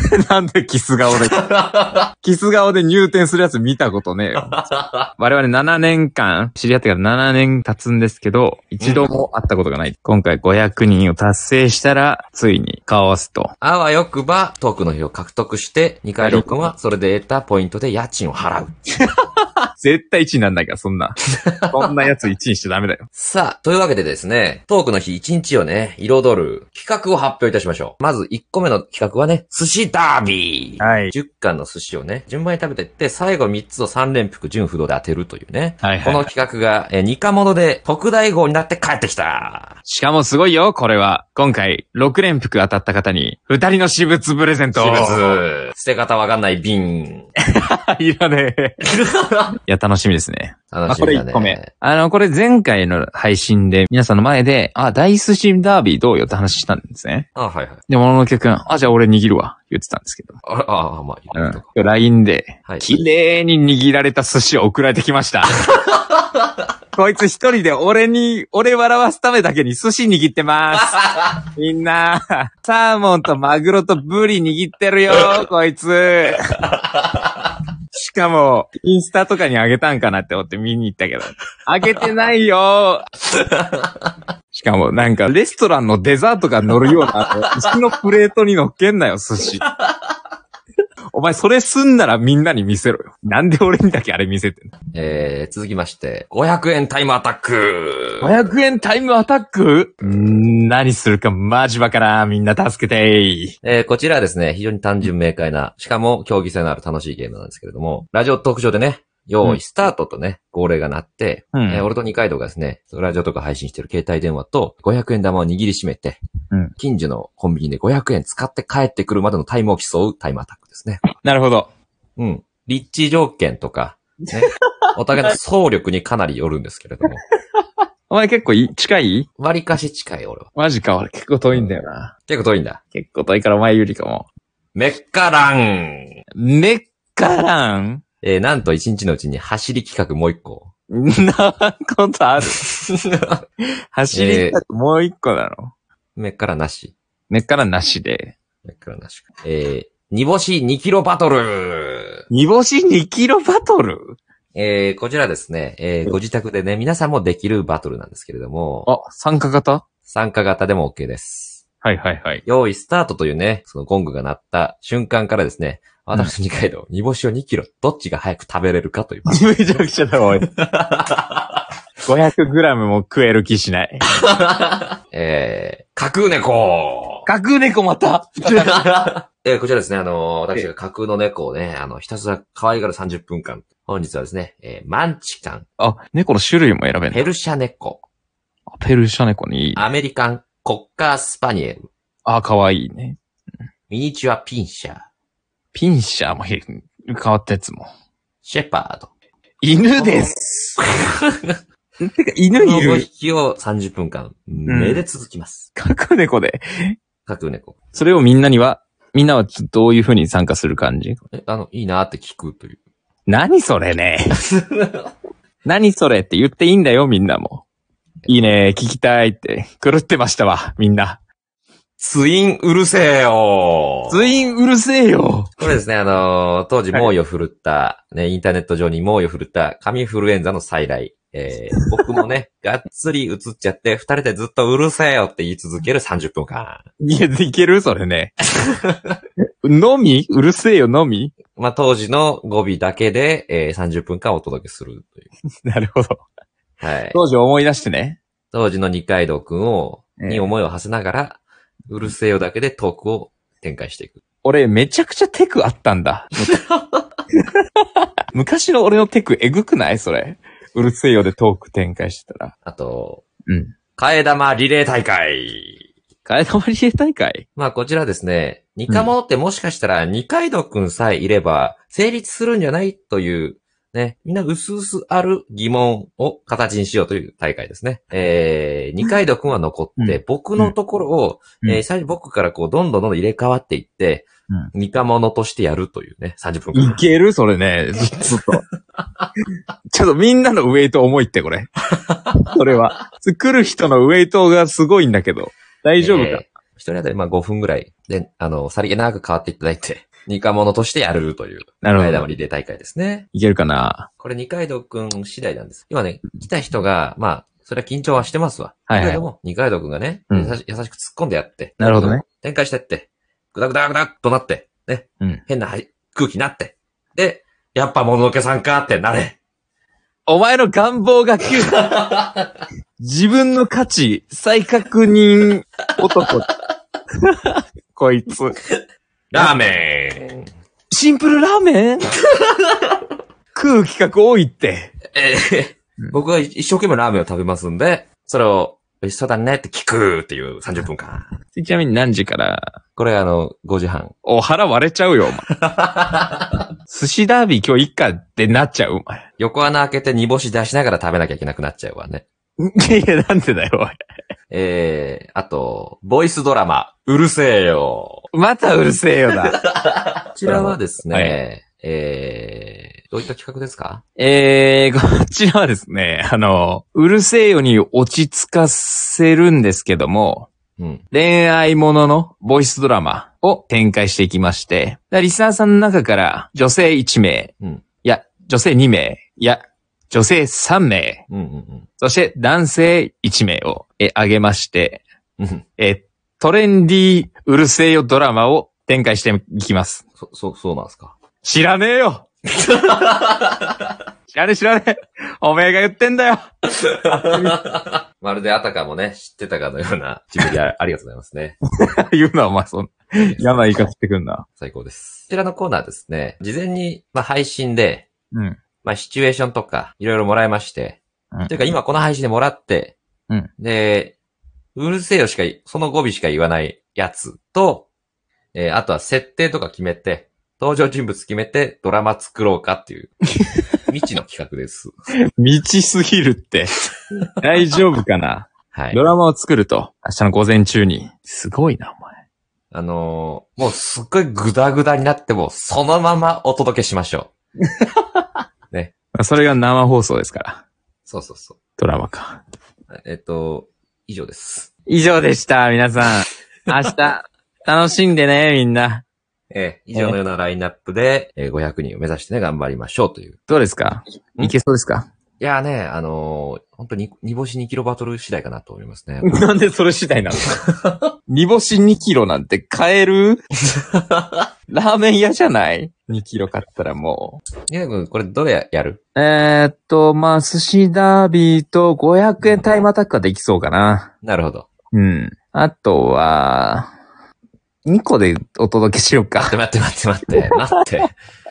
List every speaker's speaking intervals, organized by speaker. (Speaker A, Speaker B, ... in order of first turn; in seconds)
Speaker A: 0.2-1.4, 2.2-4.5, 5.2-13.5, 16.2-16.5, 19.8-21.2, 21.7-23.1, 30.8-31.1, 35.8-36.3, 39.9-45.4, 47.5-48.8, 49.7-57.3, 57.9-60.4, 61.3-65.6, 66.9-76.6, 77.9-83.1, 84.5-89.6, 91.1-94.7, 98.2-103.6, 111.5-111.9, 121.2-121.7, 128.1-129.3, 130.6-132.1, 132.9-134.3, 136.4-138.0, 140.9-142.6, 143.9-145.7, 147.3-148.3, 152.3-154.2, 158.9-159.8, 161.8-162.4, 169.3-170.5, 172.1-174.1, 177.3-178.8, 185.8-187.3, 188.7-189.9, 192.2-193.2, 195.7-197.9, 199.6-200.8, 202.0-203.1, 204.7-205.1, 205.8-207.0, 207.9-211.2, 213.3-214.3, 215.6-217.6, 218.3-221.2, 224.1-225.5, 237.0-238.3, 239.6-241.3, 245.7-246.2, 247.1-248.2, 250.2-250.5, 254.4-256.6, 258.3-262.5, 266.2-267.4, 280.0-280.8, 286.7-288.6, 289.9-291.7, 292.5-296.5, 301.8-302.3, 303.3-304.1, 308.9-309.2, 310.3-310.6, 311.8-312.2, 320.3-322.0, 323.0-326.5, 327.2-328.6, 330.9-332.1, 333.6-334.9, 341.5-342.7, 344.2-345.5, 346.9-349.2, 352.6-353.9, 358.3-359.6, 360.5-361.4, 364.2-370.5, 371.1-381.2, 382.0-385.0, 385.8-390.0, 391.4-392.3, 394.3-396.4, 397.0-397.5, 402.0-404.5, 425.4-426.8, 427.4-432.1, 439.1-440.6, 441.8-442.4, 444.9-449.0, 453.5-455.1, 459.2-460.6, 461.3-463.4, 464.7-467.4, 469.1-474.1, 474.9-476.9, 477.9-479.6
Speaker B: 1.1-2.1, 4.4-5.1, 8.8-9.1, 13.6-18.7, 21.5-21.9, 23.1-39.8, 44.7-47.3, 48.9-49.5, 50.7-51.7, 57.4-57.8, 60.5-61.7, 62.7-62.9, 70.9-71.4, 76.7-77.2, 83.3-84.0, 89.6-89.9, 94.9-98.4, 100.0-100.5, 103.6-116.2, 116.8-121.0, 122.2-127.2, 129.4-130.5, 131.5-132.8, 134.8-136.2, 138.2-140.7, 142.6-143.4, 144.1-144.6, 146.2-146.9, 148.7-152.2, 154.6-158.9, 160.1-161.6, 162.4-169.5, 170.5-171.6, 174.2-177.3, 178.5-185.7, 187.1-188.0, 189.8-191.9, 193.9-195.1, 198.4-199.1, 200.0-201.6, 202.5-205.7, 207.3-207.8, 211.3-212.8, 214.3-215.1, 218.2-218.6, 222.0-224.3, 225.6-236.8, 238.7-239.1, 241.6-245.3, 246.8-247.2, 248.5-254.2, 256.5-256.9, 262.6-263.2, 264.0-265.8, 267.6-287.0, 291.9-292.4, 296.0-303.3, 304.2-319.4, 321.9-322.4, 329.3-330.5, 335.1-341.3, 343.0-344.1, 345.5-346.5, 349.4-352.2, 354.5-358.2, 359.5-364.0, 370.8-371.0, 381.3-381.9, 385.4-385.6, 390.2-391.1, 392.6-393.8, 397.0-401.6, 403.1-403.6, 404.6-408.1, 408.8-413.0, 413.6-414.2, 414.8-417.9, 418.5-423.1, 423.9-424.9, 428.7-429.0, 432.7-437.3, 441.1-441.6, 442.9-444.7, 449.5-453.4, 455.4-459.4, 463.9-464.4, 467.7-469.0, 472.4-472.7, 474.2-474.7, 479.4-481.1